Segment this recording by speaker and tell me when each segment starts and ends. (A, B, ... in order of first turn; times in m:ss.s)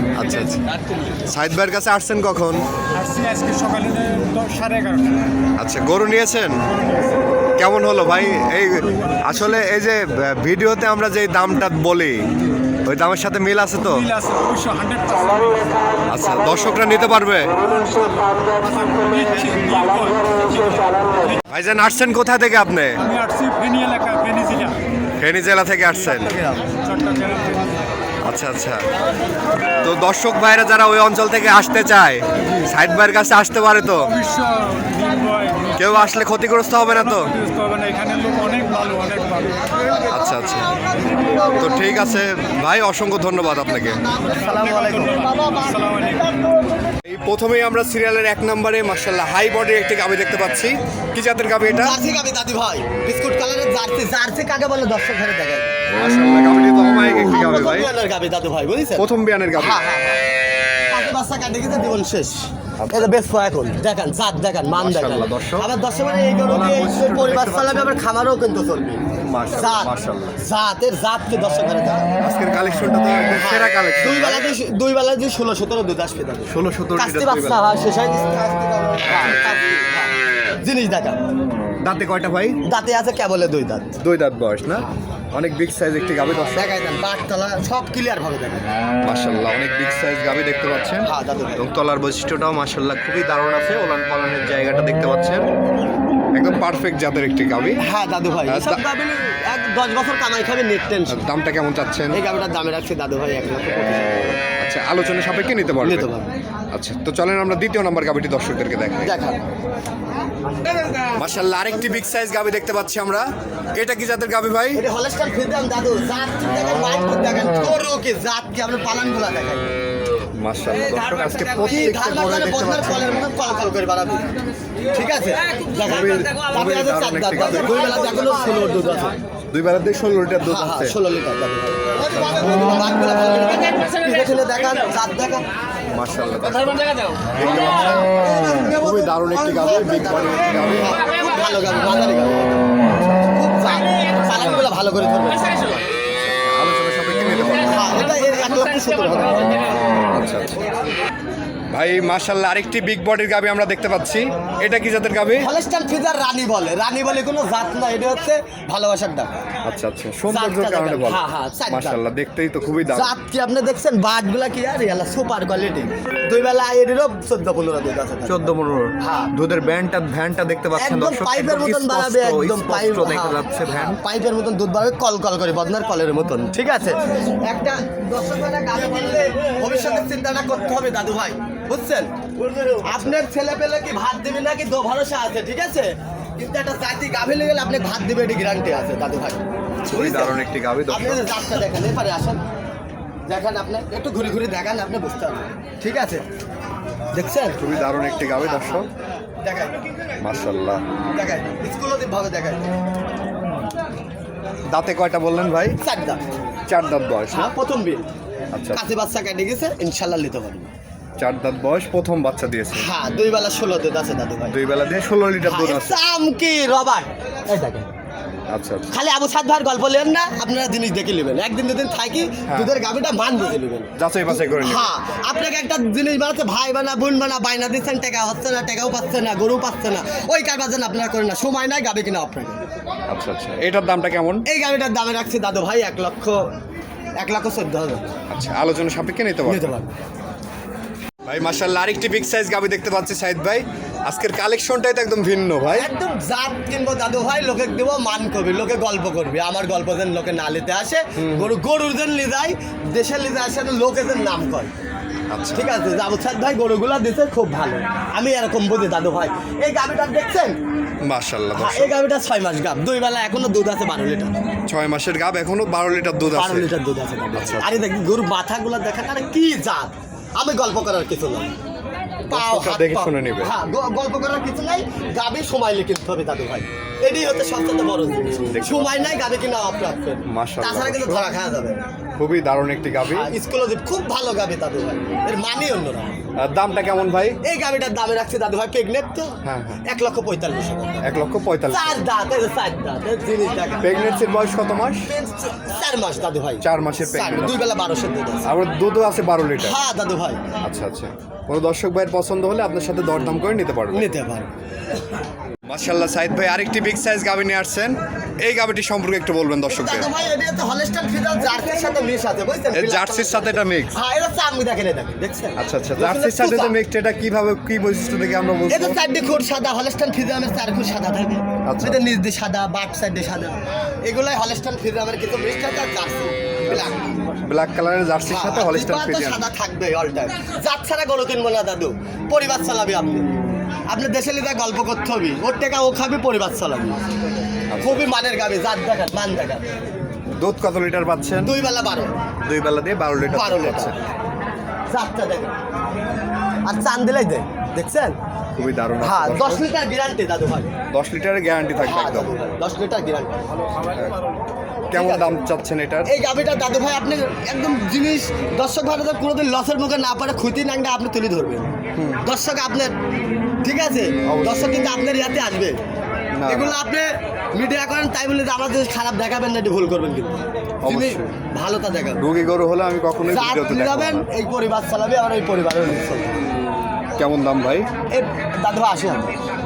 0:00.2-0:00.6 A
0:00.2-0:00.8 B
0:01.3-0:02.6 A
0:02.9-0:05.4 B
0:05.6-0:06.6 A
0:06.7-0:07.2 B
0:07.6-0:12.3 A
0:08.8-0:09.6 B
0:12.8-0:14.1 A
0:13.8-0:15.8 B
0:16.1-0:17.6 A
0:17.7-0:21.4 B
0:21.5-0:23.0 A
0:23.0-0:24.8 B
0:25.2-0:26.4 A
0:26.0-0:27.8 B
0:26.4-0:26.6 C
0:28.2-0:28.8 A
0:29.8-0:34.1 A
0:34.0-0:36.3 B
0:35.8-0:37.3 A
0:36.8-0:39.8 B
0:39.9-0:41.8 C
0:40.1-0:40.7 A
0:40.9-0:41.6 B
0:41.5-0:44.0 A
0:43.9-0:46.7 C
0:44.2-0:46.5 B
0:47.1-0:52.0 A
0:51.8-0:55.8 C
0:55.9-0:57.9 A
0:57.2-1:00.2 C
0:59.0-0:59.8 A
1:00.9-1:12.1 C
1:02.8-1:03.1 A
1:04.7-1:05.7 A
1:06.5-1:07.9 A
1:09.2-1:10.4 A
1:12.2-1:14.6 A
1:13.4-1:21.2 C
1:16.5-1:17.6 A
1:19.1-1:19.6 A
1:21.8-1:22.6 A
1:22.6-1:23.9 C
1:24.0-1:26.7 A
1:26.5-1:28.6 C
1:29.0-1:35.5 A
1:31.0-1:31.7 C
1:36.3-1:37.8 A
1:37.8-1:41.2 C
1:38.5-1:38.8 A
1:41.1-1:42.2 A
1:42.1-1:44.4 C
1:44.4-1:46.1 A
1:45.8-1:46.3 C
1:46.7-1:49.2 A
1:49.0-1:49.4 C
1:51.1-1:54.8 A
1:54.7-1:59.7 C
2:00.4-2:03.2 A
2:01.4-2:04.3 C
2:04.9-2:09.2 C
2:05.8-2:08.5 A
2:09.5-2:11.0 A
2:10.4-2:15.5 C
2:15.9-2:21.0 A
2:18.3-2:22.6 C
2:22.8-2:23.2 A
2:23.3-2:25.9 C
2:26.0-2:27.9 A
2:27.7-2:29.8 C
2:30.1-2:30.6 A
2:31.7-2:35.5 A
2:35.4-2:39.5 C
2:39.6-2:43.1 A
2:40.3-2:42.0 C
2:42.9-2:49.3 C
2:48.3-2:54.0 A
2:50.7-3:02.1 C
3:02.8-3:12.4 C
3:09.9-3:11.3 A
3:13.3-3:16.2 C
3:17.1-3:17.6 C
3:17.6-3:18.9 A
3:18.4-3:18.8 C
3:19.4-3:19.8 C
3:20.2-3:20.8 A
3:21.1-3:22.7 C
3:24.7-3:25.8 A
3:25.8-3:26.2 C
3:26.7-3:27.5 A
3:27.3-3:28.0 C
3:28.5-3:28.8 A
3:28.7-3:30.7 C
3:31.2-3:32.9 A
3:32.7-3:34.6 C
3:34.5-3:36.0 A
3:35.4-3:37.9 C
3:38.5-3:38.9 A
3:38.9-3:52.6 C
3:44.0-3:44.9 A
3:53.1-3:54.4 A
3:54.5-3:56.4 C
3:57.2-3:58.0 C
3:58.3-3:59.7 A
3:59.4-3:59.9 C
4:01.2-4:05.9 A
4:05.7-4:14.7 C
4:11.2-4:11.5 A
4:15.3-4:15.7 A
4:15.5-4:20.6 C
4:21.0-4:21.9 A
4:21.6-4:24.4 C
4:24.7-4:26.7 A
4:26.3-4:31.5 C
4:27.4-4:27.8 A
4:32.3-4:33.5 A
4:32.3-4:41.8 C
4:38.5-4:39.0 A
4:40.3-4:41.2 A
4:42.2-4:43.3 A
4:43.0-4:46.2 C
4:46.4-4:47.4 A
4:47.4-4:50.9 C
4:49.4-4:49.8 A
4:51.0-4:52.0 A
4:51.7-4:54.0 C
4:53.8-4:55.1 A
4:55.1-4:58.5 C
4:56.6-4:57.8 A
4:58.4-4:59.8 A
4:59.6-5:00.4 C
5:00.6-5:04.0 A
5:03.9-5:04.5 C
5:05.7-5:10.1 A
5:09.7-5:16.8 C
5:12.7-5:14.0 A
5:15.6-5:19.0 A
5:18.7-5:27.2 C
5:21.6-5:22.0 A
5:26.7-5:29.4 A
5:28.3-5:33.3 C
5:33.9-5:37.0 C
5:37.7-5:38.1 A
5:37.8-5:39.7 C
5:40.4-5:41.5 A
5:41.4-5:42.1 C
5:42.4-5:44.0 A
5:43.3-5:44.0 C
5:44.9-5:45.6 C
5:46.6-5:48.2 C
5:48.6-5:49.7 A
5:49.0-5:50.7 C
5:50.9-5:52.3 A
5:51.8-5:53.5 C
5:54.9-5:55.4 C
5:54.9-5:56.1 A
5:56.1-6:01.7 C
6:02.0-6:02.2 A
6:02.2-6:02.9 C
6:03.6-6:05.8 C
6:04.2-6:04.8 A
6:06.4-6:06.8 A
6:06.5-6:12.2 C
6:10.8-6:11.3 A
6:12.2-6:14.3 A
6:13.3-6:16.5 C
6:17.2-6:17.9 A
6:18.1-6:19.4 C